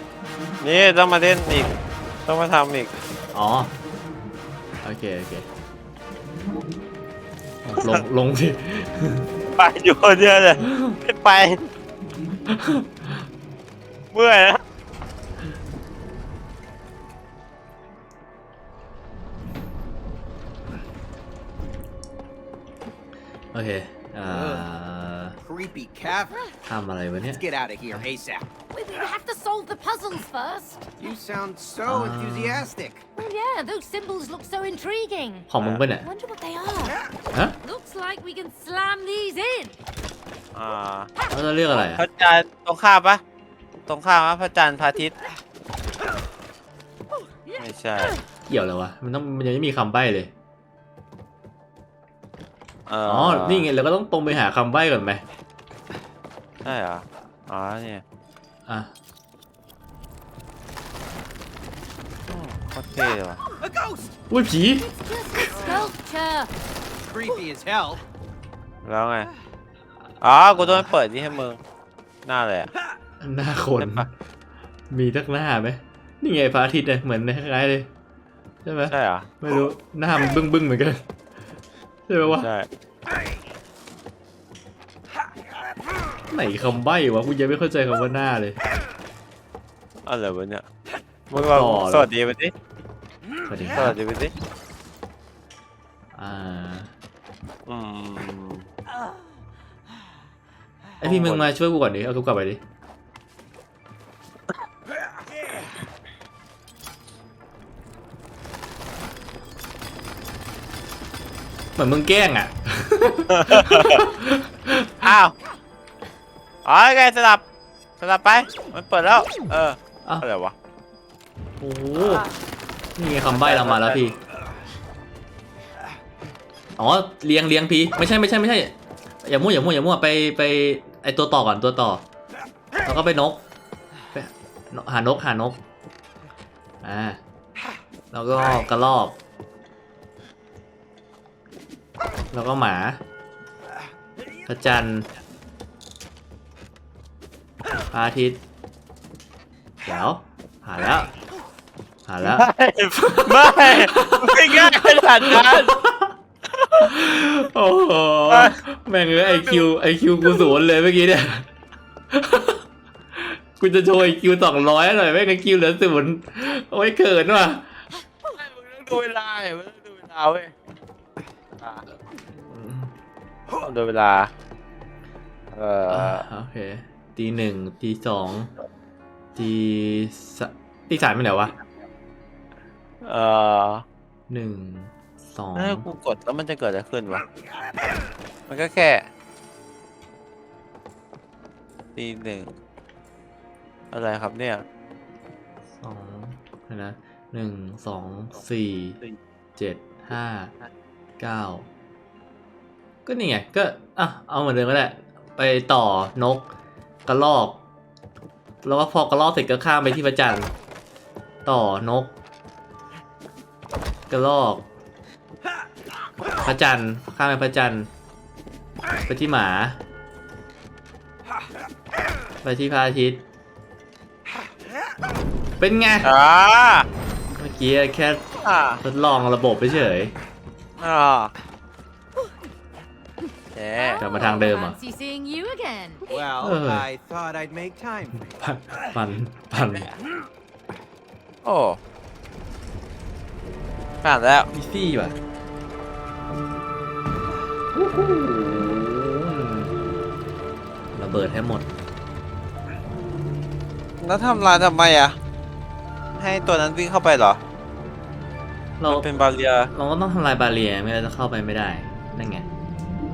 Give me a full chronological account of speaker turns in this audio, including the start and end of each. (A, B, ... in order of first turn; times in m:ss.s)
0:00.6-0:01.7 A
0:02.3-0:02.9 A
0:03.3-0:03.7 B
0:04.8-0:05.5 B
0:07.6-0:09.3 B
0:09.6-0:11.6 A
0:10.6-0:11.0 B
0:12.4-0:13.2 B
0:14.1-0:14.6 A
0:23.5-0:25.4 B
0:24.3-0:24.7 C
0:25.4-0:26.4 C
0:26.7-0:28.0 B
0:27.3-0:28.5 C
0:28.7-0:30.9 D
0:31.0-0:33.0 C
0:31.8-0:32.7 B
0:33.2-0:35.5 D
0:35.5-0:36.0 B
0:36.0-0:37.0 D
0:36.8-0:37.1 C
0:37.6-0:39.8 D
0:40.5-0:41.1 A
0:41.3-0:42.0 B
0:41.8-0:43.2 A
0:43.8-0:45.1 A
0:47.6-0:48.2 A
0:48.5-0:50.3 B
0:52.9-0:53.7 A
0:53.0-0:55.2 B
0:56.6-0:58.0 A
0:58.7-0:58.9 B
1:02.3-1:03.4 A
1:03.5-1:04.1 C
1:04.3-1:05.9 B
1:04.8-1:06.5 D
1:05.6-1:05.9 C
1:07.1-1:08.0 C
1:08.8-1:09.3 A
1:10.2-1:11.6 A
1:10.5-1:10.9 B
1:12.2-1:12.7 A
1:13.2-1:14.1 B
1:13.8-1:14.1 A
1:14.9-1:17.9 B
1:18.6-1:21.0 B
1:18.9-1:19.3 A
1:22.1-1:22.5 B
1:22.2-1:22.7 A
1:26.3-1:28.6 B
1:30.0-1:30.6 A
1:31.3-1:32.5 A
1:31.4-1:32.1 B
1:33.4-1:34.0 B
1:33.7-1:34.3 A
1:36.1-1:36.9 B
1:37.7-1:38.6 A
1:41.0-1:42.6 B
1:41.0-1:41.5 A
1:51.8-1:55.2 B
1:53.3-1:54.0 A
1:55.0-1:55.3 A
1:56.6-1:57.4 A
1:58.0-2:00.5 A
2:01.6-2:02.3 B
2:01.9-2:02.2 A
2:03.0-2:04.2 B
2:03.3-2:04.0 A
2:06.8-2:12.0 B
2:12.8-2:13.4 B
2:14.1-2:15.6 B
2:16.8-2:17.2 B
2:18.1-2:19.2 B
2:22.3-2:23.0 B
2:24.4-2:25.1 B
2:27.9-2:28.4 B
2:29.8-2:31.1 B
2:32.1-2:36.2 B
2:32.2-2:35.8 A
2:36.5-2:36.9 A
2:36.8-2:41.5 B
2:38.3-2:38.6 A
2:39.2-2:39.7 A
2:42.1-2:42.6 B
2:43.1-2:47.7 B
2:48.3-2:50.5 A
2:52.4-2:52.9 B
2:53.6-2:54.3 A
2:55.5-2:56.2 A
2:55.9-2:58.5 B
2:59.3-3:01.5 B
3:03.0-3:03.8 A
3:04.3-3:05.8 B
3:05.6-3:07.2 A
3:08.5-3:09.1 A
3:12.0-3:12.5 A
3:13.9-3:14.6 A
3:15.8-3:19.0 B
3:19.6-3:20.5 B
3:21.2-3:21.7 B
3:23.0-3:26.5 B
3:27.0-3:27.6 B
3:28.6-3:30.5 B
3:31.4-3:32.1 B
3:34.1-3:34.7 B
3:36.4-3:37.9 B
3:39.1-3:39.8 B
3:42.4-3:43.2 B
3:45.6-3:46.1 B
3:46.0-3:46.9 A
3:47.4-3:48.2 B
3:48.4-3:48.8 A
3:48.8-3:50.1 B
3:50.8-3:51.3 A
3:53.5-3:54.0 A
3:53.7-3:56.1 D
3:54.0-3:54.8 B
3:56.1-3:58.3 C
3:56.4-3:56.9 B
3:58.4-3:59.9 B
4:01.4-4:01.8 A
4:04.0-4:04.5 A
4:04.5-4:05.2 B
4:07.7-4:09.8 B
4:10.9-4:11.7 B
4:14.0-4:15.1 A
4:16.2-4:17.4 A
4:18.8-4:19.1 B
4:18.9-4:19.7 A
4:19.7-4:22.5 B